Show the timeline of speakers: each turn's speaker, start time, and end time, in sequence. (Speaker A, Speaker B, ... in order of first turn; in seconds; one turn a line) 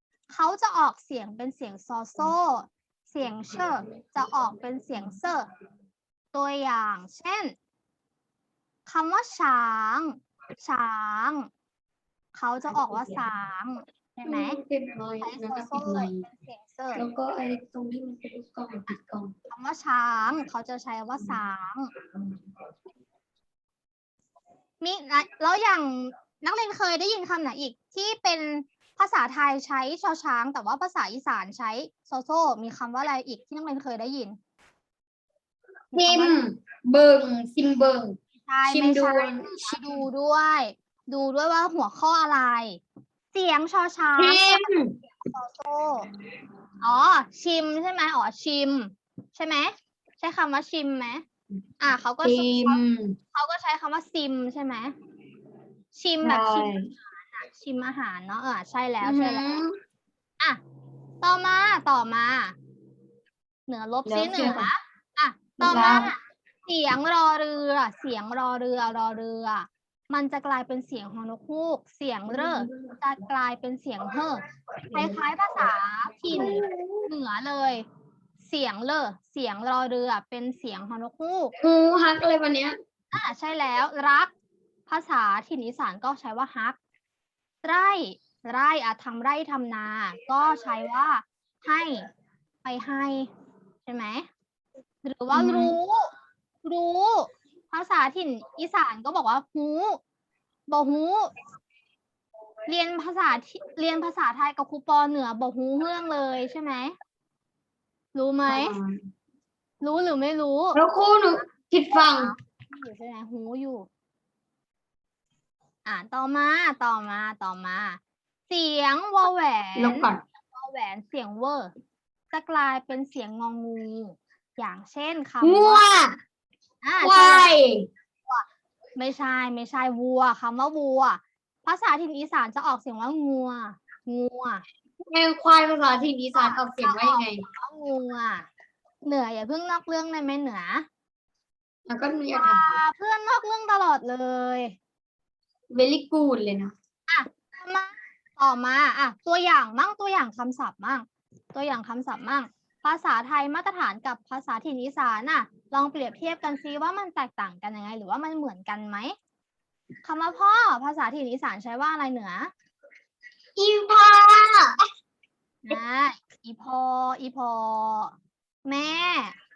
Speaker A: 0.3-5.5
Speaker A: 6.3-7.5
Speaker A: 8.8-11.5
Speaker A: 12.3-14.6
Speaker B: 14.2-16.2
Speaker A: 15.2-17.0
Speaker B: 16.9-19.3
Speaker A: 19.5-21.9
Speaker A: 24.8-34.4
Speaker A: 35.9-36.4
Speaker B: 35.9-40.0
Speaker A: 38.4-42.8
Speaker A: 43.3-46.1
Speaker B: 44.2-45.0
Speaker A: 46.8-51.2
Speaker A: 51.8-52.8
Speaker B: 52.2-53.1
Speaker A: 53.3-54.9
Speaker A: 55.9-59.6
Speaker B: 56.2-56.9
Speaker B: 59.0-59.7
Speaker A: 61.2-62.5
Speaker A: 63.7-77.8
Speaker B: 64.0-64.7
Speaker B: 65.6-66.1
Speaker B: 72.3-72.9
Speaker B: 74.8-75.2
Speaker B: 76.3-77.1
Speaker A: 78.4-81.5
Speaker B: 81.6-82.8
Speaker A: 83.1-84.3
Speaker A: 84.9-86.8
Speaker A: 87.6-92.1
Speaker A: 92.6-93.3
Speaker A: 93.8-94.3
Speaker A: 95.0-96.1
Speaker B: 95.3-95.8
Speaker A: 96.6-100.0
Speaker A: 100.7-101.3
Speaker A: 102.7-106.9
Speaker A: 108.1-108.8
Speaker B: 108.5-109.0
Speaker A: 109.8-110.8
Speaker B: 110.7-112.3
Speaker A: 111.9-113.9
Speaker A: 115.8-121.7
Speaker B: 119.8-120.2
Speaker A: 122.3-125.8
Speaker B: 125.4-126.2
Speaker A: 126.8-127.5
Speaker B: 127.0-127.9
Speaker A: 129.0-134.6
Speaker B: 135.1-137.4
Speaker A: 136.3-138.5
Speaker A: 139.0-140.8
Speaker B: 141.9-142.8
Speaker A: 142.3-144.8
Speaker B: 145.7-146.7
Speaker A: 147.1-159.1
Speaker A: 160.0-162.5
Speaker B: 163.6-164.8
Speaker A: 165.6-169.3